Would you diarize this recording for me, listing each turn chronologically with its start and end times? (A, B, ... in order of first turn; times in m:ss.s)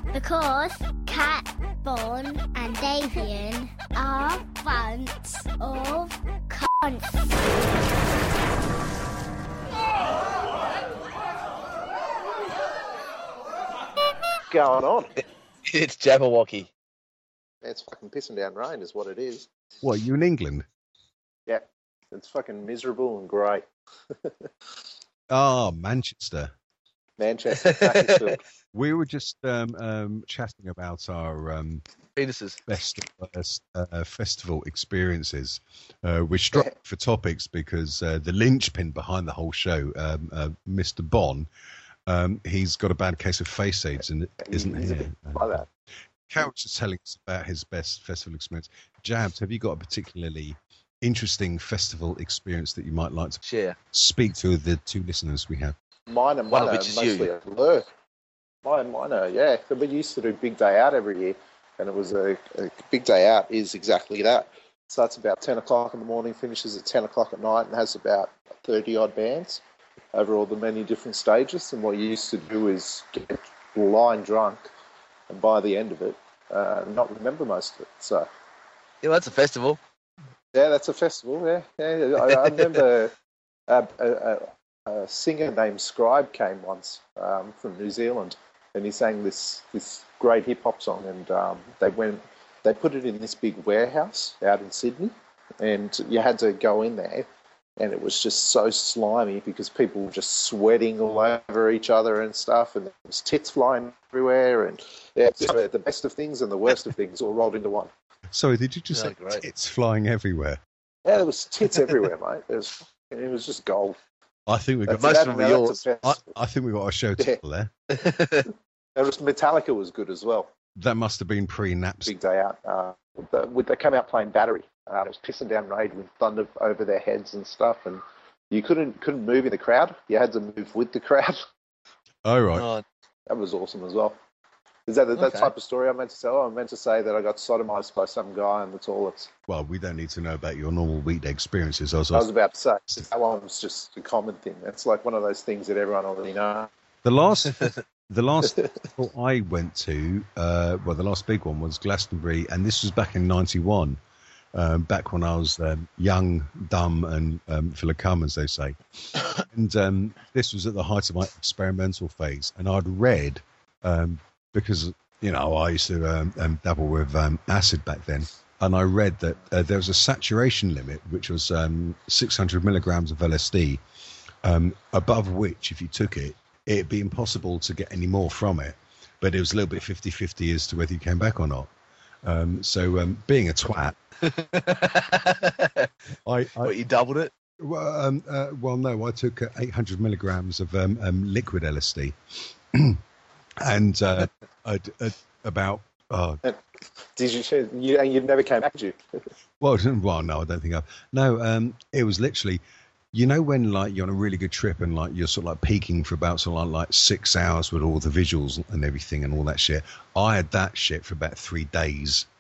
0:00.1-0:07.4 A
0:14.5-0:15.1 B
0:15.7-0:16.7 C
0:17.6-0:19.5 B
0:19.8-0:20.7 D
0:21.5-0:24.5 B
0:25.3-0:26.5 D
0:27.2-0:28.4 B
0:27.6-0:28.4 C
0:28.7-0:31.8 D
0:32.2-0:32.6 C
0:32.7-0:41.5 D
0:42.1-0:45.7 D
0:44.4-0:45.6 B
0:46.3-0:53.4 D
0:53.4-0:53.8 C
0:53.9-0:55.8 D
0:56.1-0:57.9 B
0:56.5-0:57.3 C
0:58.6-1:09.6 B
1:10.1-1:14.6 B
1:15.3-1:18.3 B
1:19.0-1:19.8 C
1:20.5-1:23.1 B
1:22.3-1:22.8 C
1:23.7-1:37.3 B
1:37.8-1:47.9 B
1:48.3-1:50.6 D
1:48.9-1:49.5 C
1:51.0-1:54.0 B
1:54.5-1:55.2 D
1:54.9-1:55.8 C
1:54.9-1:56.2 B
1:56.0-1:57.7 D
1:57.9-1:58.5 C
1:59.0-2:00.5 B
2:00.8-2:02.1 D
2:02.1-2:11.4 B
2:12.2-2:12.7 D
2:12.6-2:12.8 C
2:13.3-2:14.2 B
2:14.9-2:19.3 B
2:15.2-2:15.5 C
2:19.5-2:22.3 D
2:22.1-2:26.7 B
2:27.0-2:34.0 D
2:34.6-2:38.8 D
2:39.4-2:53.8 D
2:54.4-3:01.7 D
3:02.2-3:04.0 D
3:04.2-3:05.9 C
3:06.3-3:06.7 D
3:06.6-3:07.3 C
3:07.6-3:12.2 D
3:12.7-3:13.0 D
3:13.6-3:16.4 D
3:17.2-3:19.0 B
3:19.6-3:22.6 D
3:23.1-3:32.3 D